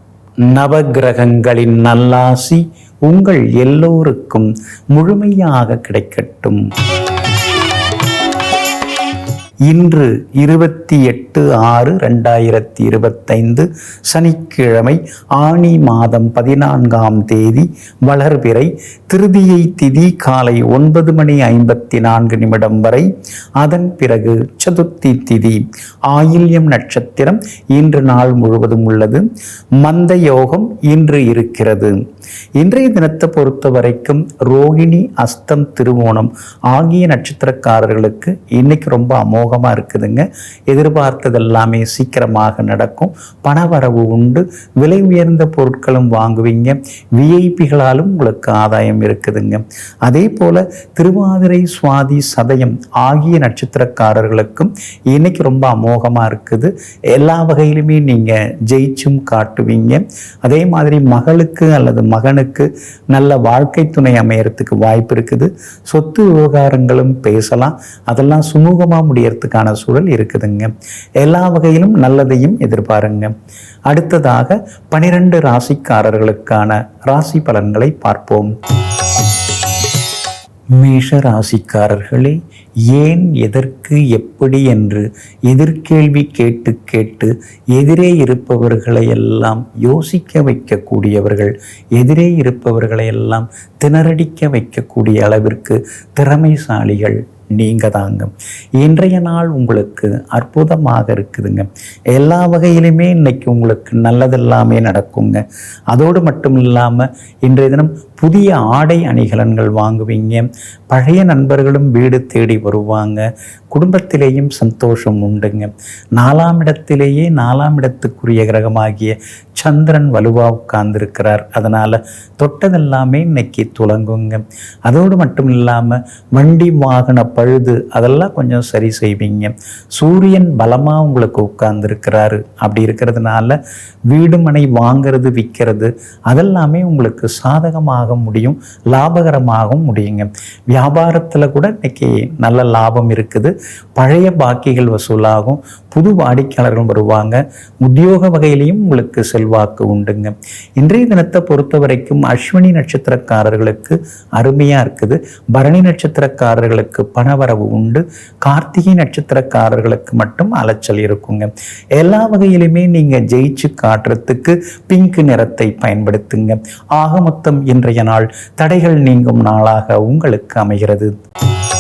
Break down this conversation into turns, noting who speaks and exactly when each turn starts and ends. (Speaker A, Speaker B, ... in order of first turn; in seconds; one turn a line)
Speaker A: 0.5-6.6
Speaker A: 9.7-23.1
Speaker A: 23.6-29.2
Speaker A: 29.8-31.9
Speaker A: 32.6-73.3
Speaker A: 73.9-78.5
Speaker A: 80.8-82.4
Speaker A: 82.9-133.6
Speaker A: 134.1-171.1